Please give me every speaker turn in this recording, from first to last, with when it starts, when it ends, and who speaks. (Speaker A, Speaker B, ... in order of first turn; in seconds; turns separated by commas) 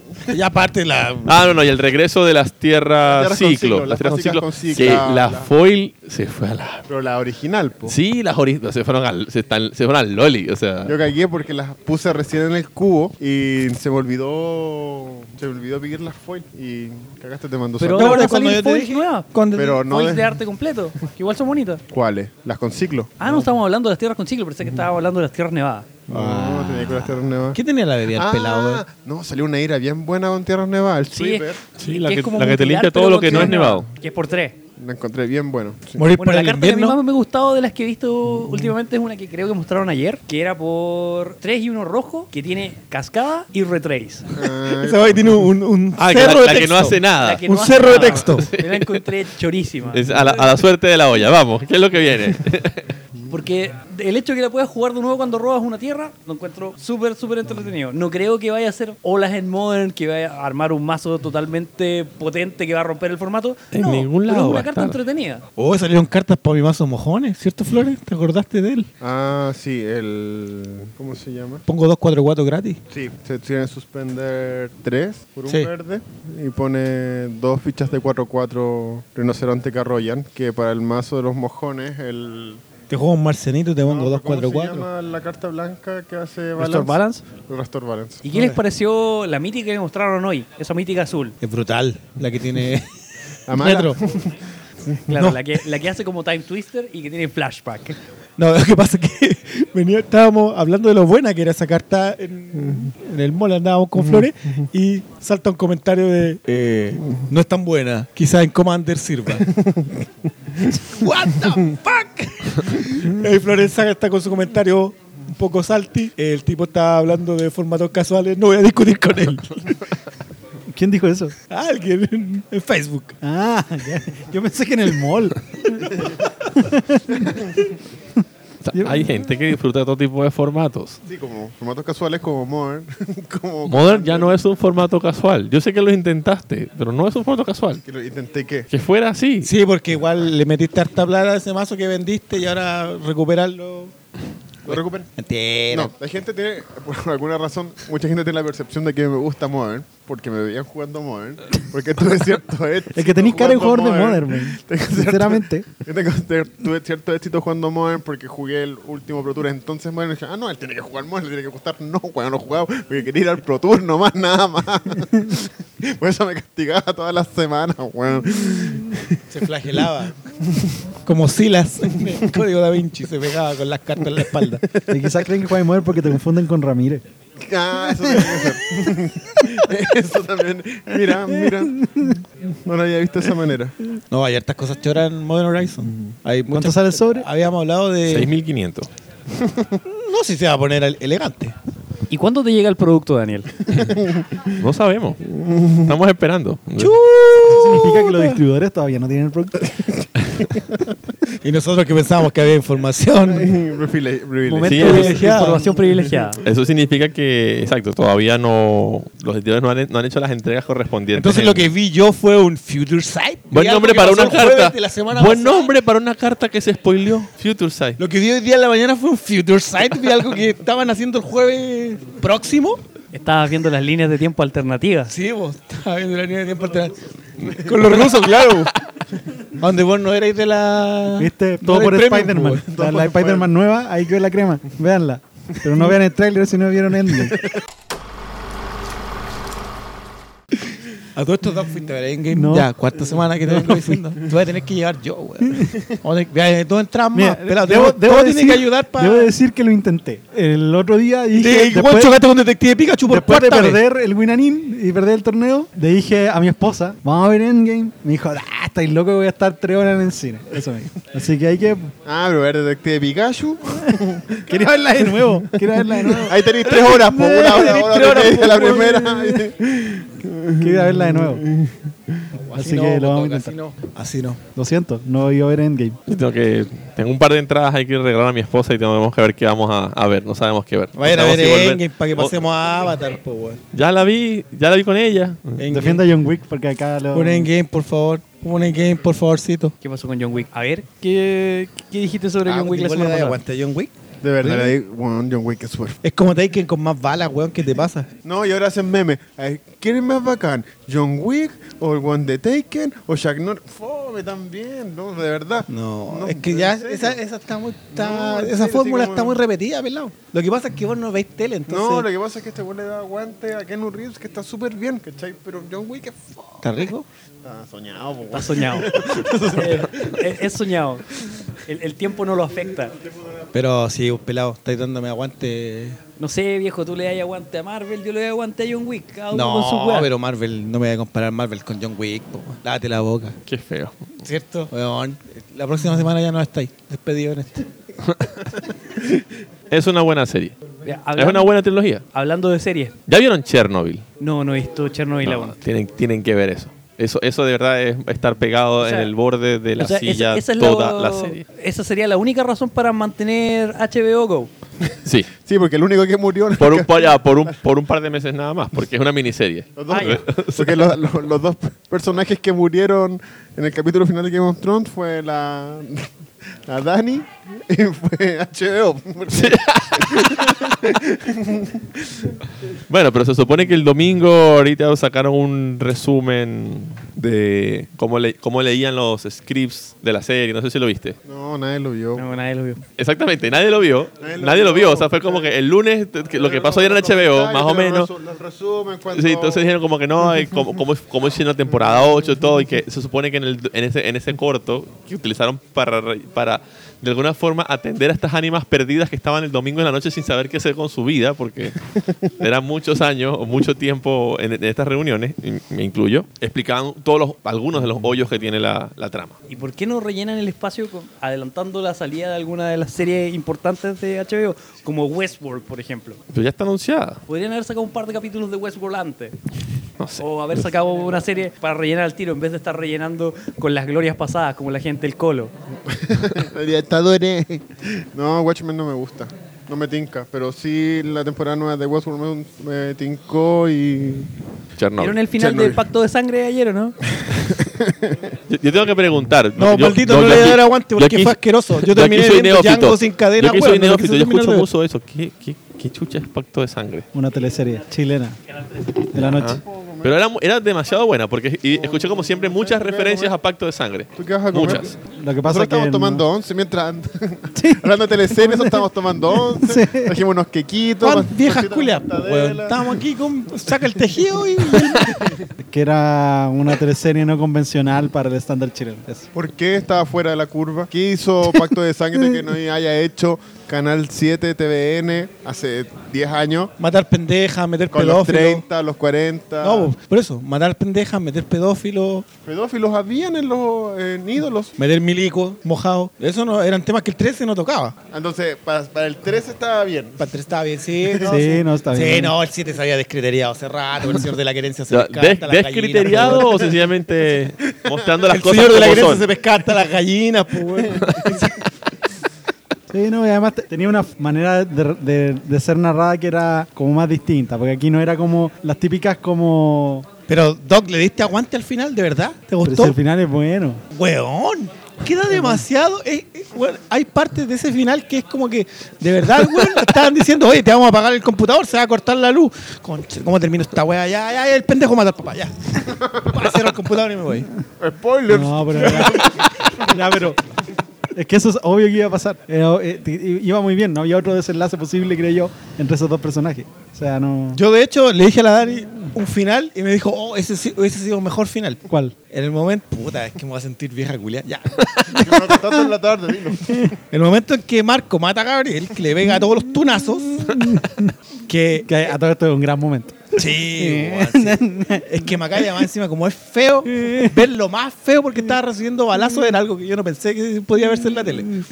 Speaker A: 0.3-1.6, Speaker B: 1.2-6.8, Speaker C: 3.0-5.5, Speaker C: 6.9-8.0, Speaker B: 7.9-11.0, Speaker C: 10.8-18.3, Speaker A: 17.8-19.9, Speaker D: 17.8-19.3, Speaker C: 19.6-20.4, Speaker D: 19.8-21.8, Speaker C: 21.9-23.1, Speaker D: 23.2-26.1, Speaker A: 23.2-23.5, Speaker A: 26.1-27.0, Speaker C: 26.1-31.6, Speaker A: 27.5-28.8, Speaker D: 31.3-34.6, Speaker B: 31.8-33.9, Speaker C: 33.3-33.6, Speaker C: 34.8-36.1, Speaker A: 36.0-37.0, Speaker D: 36.2-44.3, Speaker C: 44.3-45.5, Speaker A: 44.7-48.5, Speaker B: 46.0-49.1, Speaker D: 47.2-50.3, Speaker B: 49.9-52.9, Speaker D: 53.3-65.4, Speaker B: 63.7-65.0, Speaker A: 65.6-68.9, Speaker C: 69.0-71.6, Speaker A: 71.7-72.8, Speaker C: 72.9-82.6, Speaker A: 82.9-84.9, Speaker C: 83.8-88.2, Speaker D: 86.6-87.2, Speaker D: 88.2-91.3, Speaker A: 88.3-88.6, Speaker A: 91.4-92.9, Speaker C: 93.5-95.1, Speaker A: 93.5-94.0, Speaker A: 95.1-95.4, Speaker D: 95.1-98.0, Speaker A: 98.4-109.5, Speaker C: 109.5-110.1, Speaker A: 110.6-119.6, Speaker E: 120.7-121.3, Speaker A: 121.5-123.2, Speaker E: 123.2-127.7, Speaker B: 128.6-131.0, Speaker E: 128.8-129.1, Speaker C: 131.1-134.4, Speaker B: 133.7-137.8, Speaker C: 137.8-138.7, Speaker B: 138.7-139.5, Speaker A: 139.4-143.9, Speaker C: 144.7-145.1, Speaker A: 145.2-145.9, Speaker C: 145.7-169.3, Speaker E: 152.9-155.7, Speaker A: 169.3-170.2, Speaker C: 170.4-170.9, Speaker A: 171.1-174.7, Speaker C: 174.8-175.1, Speaker E: 174.9-177.0, Speaker C: 177.4-183.8, Speaker E: 181.5-182.1, Speaker A: 184.1-188.3, Speaker C: 185.8-186.2, Speaker E: 186.5-187.3, Speaker B: 188.1-188.9, Speaker C: 189.3-189.8, Speaker A: 189.8-191.6, Speaker D: 192.1-193.6, Speaker C: 193.7-194.6, Speaker B: 194.6-195.2, Speaker C: 195.3-195.9, Speaker B: 195.8-197.0, Speaker A: 196.8-198.4, Speaker E: 197.5-199.7, Speaker C: 199.6-200.9, Speaker A: 201.4-203.6, Speaker C: 203.2-204.9, Speaker D: 204.5-206.4, Speaker B: 204.7-205.2, Speaker A: 204.7-205.8, Speaker B: 206.4-211.7, Speaker A: 211.1-215.7, Speaker B: 213.5-218.0, Speaker A: 218.0-222.8, Speaker D: 223.1-225.1, Speaker A: 225.1-228.7, Speaker B: 227.5-228.6, Speaker A: 229.6-232.7, Speaker E: 231.2-237.4, Speaker C: 232.7-233.5, Speaker A: 241.2-249.3, Speaker E: 242.3-244.0, Speaker E: 247.1-252.2, Speaker A: 251.3-253.8, Speaker E: 253.1-261.9, Speaker C: 262.1-272.3, Speaker E: 263.9-266.4, Speaker A: 266.7-269.4, Speaker E: 270.6-271.4, Speaker A: 272.4-274.4, Speaker E: 272.6-273.6, Speaker E: 274.6-276.0, Speaker B: 276.1-282.4, Speaker A: 281.0-283.6, Speaker B: 283.7-285.6, Speaker A: 285.6-286.0, Speaker E: 285.7-287.5, Speaker A: 287.1-289.8, Speaker D: 289.8-293.4, Speaker A: 292.4-293.9, Speaker C: 294.2-296.0, Speaker A: 294.4-294.8, Speaker A: 296.0-298.1, Speaker C: 298.2-307.2, Speaker A: 305.7-312.1, Speaker C: 307.9-309.4, Speaker C: 311.7-316.8, Speaker A: 316.6-317.1, Speaker C: 317.4-320.3, Speaker D: 318.3-321.1, Speaker D: 321.7-322.9, Speaker C: 323.2-323.4, Speaker A: 323.5-326.0, Speaker D: 326.2-330.1, Speaker A: 329.3-333.4, Speaker B: 333.5-334.1, Speaker A: 334.2-337.7, Speaker B: 338.0-338.5, Speaker B: 339.7-340.6, Speaker D: 340.8-341.6, Speaker B: 341.2-342.1, Speaker D: 342.1-342.9, Speaker B: 343.1-344.1, Speaker D: 344.2-345.6, Speaker B: 345.2-351.4, Speaker D: 348.8-349.1, Speaker D: 349.8-354.5, Speaker B: 355.1-355.3, Speaker C: 355.4-357.1, Speaker B: 356.6-360.9, Speaker C: 359.8-366.1, Speaker D: 359.9-360.2, Speaker C: 366.7-372.4, Speaker B: 369.3-370.9, Speaker B: 372.9-381.2, Speaker C: 381.3-382.3, Speaker D: 382.2-382.8, Speaker B: 383.0-388.1, Speaker C: 384.2-385.5, Speaker C: 386.3-389.8, Speaker B: 389.1-409.4, Speaker D: 409.5-416.2, Speaker B: 416.3-417.2, Speaker D: 417.3-419.4, Speaker B: 420.0-420.6, Speaker D: 420.2-425.5, Speaker C: 425.9-434.3, Speaker B: 434.8-435.2, Speaker D: 435.0-437.0, Speaker C: 435.3-435.8, Speaker C: 437.2-438.2, Speaker B: 438.5-447.1, Speaker A: 439.6-444.7, Speaker E: 447.1-448.4, Speaker E: 449.0-449.6, Speaker C: 449.3-450.1, Speaker B: 449.4-454.9, Speaker C: 451.7-453.4, Speaker C: 454.2-463.0, Speaker E: 455.1-456.3, Speaker E: 457.6-458.9, Speaker E: 459.5-460.2, Speaker A: 461.0-465.2, Speaker C: 464.8-465.4, Speaker E: 465.6-469.3, Speaker C: 469.3-476.7, Speaker A: 476.8-478.6, Speaker C: 477.9-479.9, Speaker A: 479.6-482.3, Speaker C: 482.4-484.8, Speaker A: 484.8-488.0, Speaker C: 488.1-490.3, Speaker A: 490.2-496.7, Speaker C: 491.0-491.4, Speaker E: 491.3-492.4, Speaker B: 494.9-499.3, Speaker C: 497.9-498.3, Speaker A: 498.3-501.6, Speaker C: 500.8-501.5, Speaker E: 502.9-510.1, Speaker A: 510.3-513.0, Speaker E: 512.6-513.8, Speaker A: 513.9-527.5, Speaker E: 515.3-515.6, Speaker C: 527.8-529.7, Speaker E: 528.3-530.4, Speaker E: 531.1-537.6, Speaker A: 537.5-545.7, Speaker E: 541.9-542.1, Speaker C: 545.1-547.0, Speaker E: 546.7-546.9, Speaker A: 547.1-550.7, Speaker E: 550.4-551.1, Speaker A: 551.5-551.9, Speaker E: 551.9-555.3, Speaker A: 553.4-561.6, Speaker E: 556.9-557.4